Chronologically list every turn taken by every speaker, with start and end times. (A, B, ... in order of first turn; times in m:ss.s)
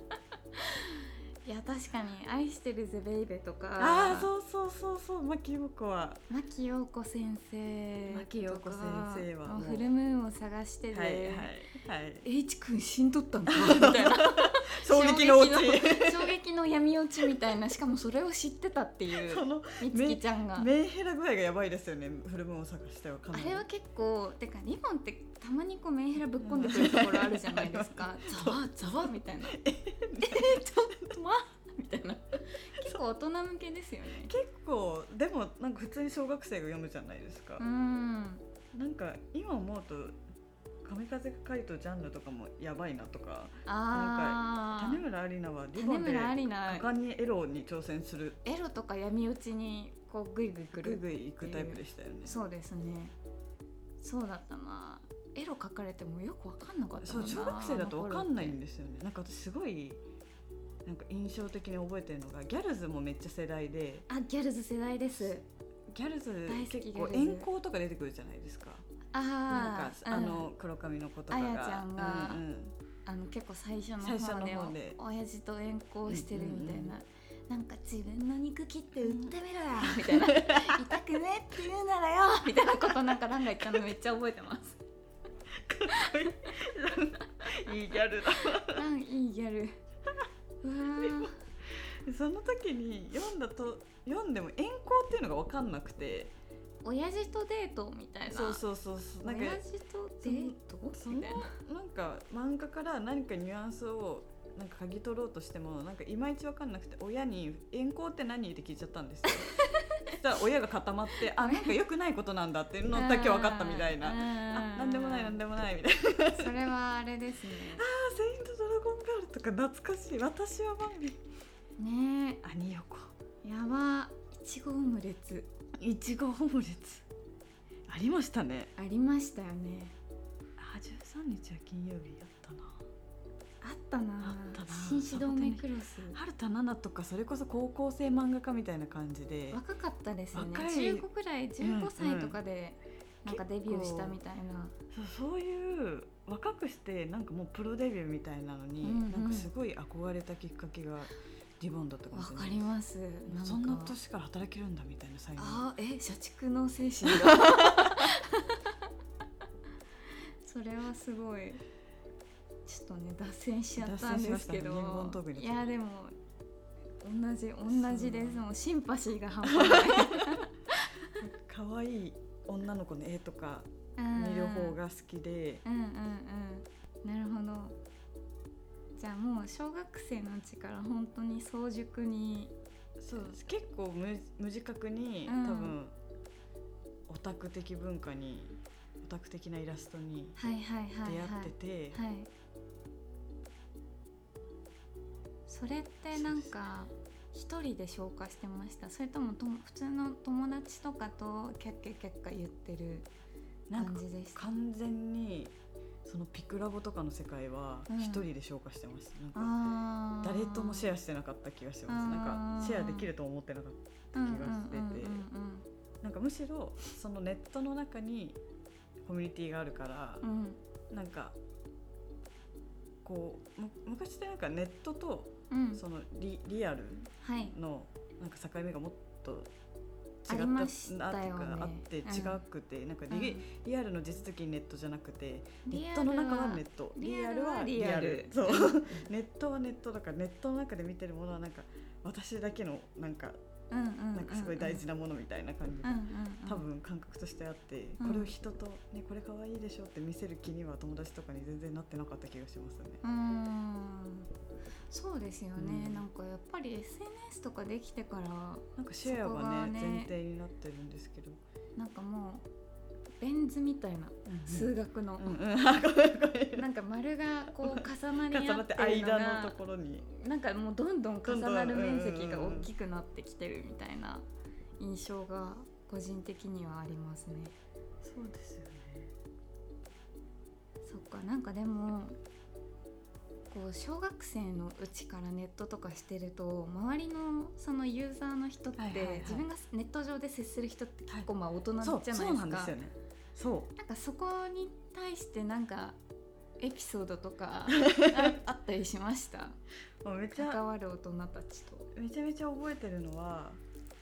0:00.6-0:04.3 A
0:03.8-0:06.2 B
0:06.3-0:11.5 A
0:08.1-0:09.9 B
0:10.9-0:12.3 B
0:12.2-0:20.7 A
0:13.5-0:16.3 B
0:19.1-0:23.6 B
0:23.3-0:29.6 A
0:26.4-0:31.2 B
0:30.2-0:34.3 A
0:34.2-0:37.6 B
0:37.6-0:38.4 A
0:38.7-0:40.2 B
0:40.8-0:48.4 B
0:43.7-0:45.0 A
0:45.8-0:46.9 A
0:48.4-0:53.1 A
0:50.7-0:52.4 B
0:54.0-0:58.6 A
0:57.0-1:00.0 B
1:00.8-1:04.1 B
1:04.1-1:05.4 A
1:05.9-1:08.9 B
1:06.5-1:07.5 A
1:09.1-1:10.5 A
1:09.5-1:12.8 B
1:11.3-1:12.4 A
1:13.1-1:24.8 A
1:14.0-1:15.0 B
1:16.1-1:17.0 B
1:19.0-1:21.0 B
1:22.9-1:23.8 B
1:25.5-1:28.8 B
1:25.9-1:26.3 A
1:28.4-1:29.8 A
1:30.6-1:31.4 A
1:31.0-1:36.3 B
1:36.8-1:38.6 A
1:38.3-1:39.6 B
1:39.2-1:41.6 A
1:40.2-1:56.7 B
1:49.3-1:50.2 A
1:51.4-1:51.8 A
1:52.9-1:55.4 A
1:56.4-1:57.8 A
1:57.7-2:01.2 B
2:01.8-2:02.4 A
2:02.4-2:03.1 B
2:03.4-2:05.5 A
2:05.8-2:07.0 B
2:07.9-2:08.7 B
2:08.8-2:10.0 A
2:10.6-2:12.8 B
2:13.6-2:16.2 A
2:14.2-2:19.6 B
2:19.5-2:24.8 A
2:20.3-2:21.1 B
2:21.6-2:22.4 B
2:23.3-2:24.2 B
2:24.9-2:32.7 B
2:28.8-2:29.5 A
2:32.1-2:34.0 A
2:33.3-2:35.6 B
2:35.4-2:38.8 A
2:37.0-2:38.1 B
2:40.4-2:41.6 A
2:42.7-2:46.2 A
2:43.8-2:45.7 B
2:47.0-2:51.2 A
2:47.7-2:48.5 B
2:49.5-2:50.4 B
2:51.2-2:55.6 B
2:54.0-2:54.8 A
2:55.6-2:57.8 A
2:59.0-3:02.5 A
3:03.0-3:05.9 B
3:05.3-3:05.8 A
3:07.1-3:10.4 B
3:10.4-3:12.3 A
3:11.0-3:12.0 B
3:15.5-3:23.1 A
3:16.1-3:16.5 B
3:23.7-3:29.7 B
3:23.8-3:24.5 A
3:27.9-3:28.2 A
3:29.4-3:30.9 A
3:30.2-3:35.3 B
3:31.9-3:33.1 A
3:34.1-3:35.6 A
3:36.0-3:38.4 B
3:39.0-3:40.2 B
3:40.2-3:40.6 A
3:40.9-3:41.4 B
3:43.0-3:49.5 B
3:45.5-3:45.8 A
3:47.2-3:47.6 A
3:50.3-4:03.4 B
3:50.3-3:52.4 A
3:53.1-3:53.4 A
3:55.7-3:59.0 A
4:03.7-4:04.8 A
4:04.1-4:13.0 B
4:05.8-4:06.6 A
4:08.0-4:08.3 A
4:13.0-4:14.3 A
4:14.9-4:20.1 A
4:15.6-4:16.0 B
4:18.8-4:21.4 B
4:21.8-4:22.5 A
4:23.2-4:25.4 A
4:24.3-4:26.6 B
4:26.6-4:34.3 A
4:27.6-4:30.0 B
4:31.2-4:32.7 B
4:34.8-4:37.5 A
4:38.0-4:39.1 B
4:40.8-4:42.2 A
4:43.5-4:52.8 A
4:48.8-4:49.5 B
4:51.8-4:53.7 B
4:53.8-4:56.0 A
4:56.6-4:59.6 A
4:57.8-4:58.3 B
5:00.0-5:00.6 B
5:00.3-5:01.9 A
5:01.9-5:03.6 B